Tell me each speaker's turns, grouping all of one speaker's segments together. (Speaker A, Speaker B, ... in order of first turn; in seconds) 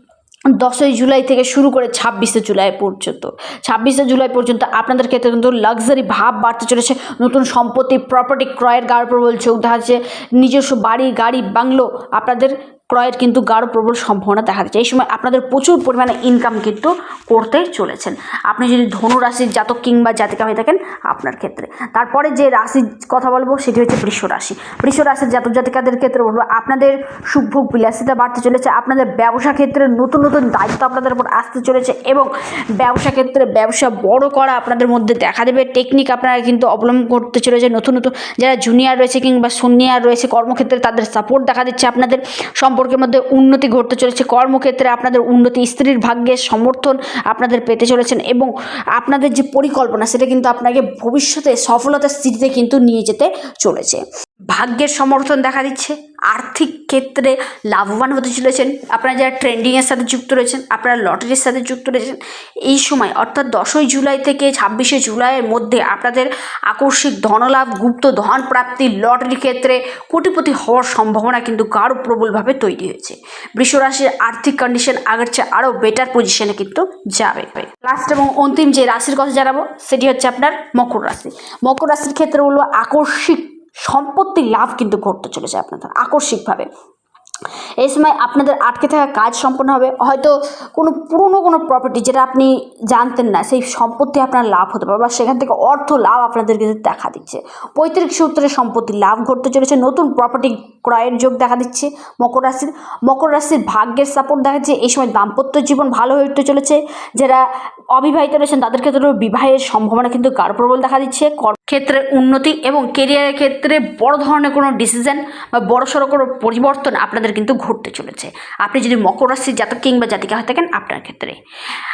Speaker A: 0.6-86.7, 87.8-107.4, 108.0-121.4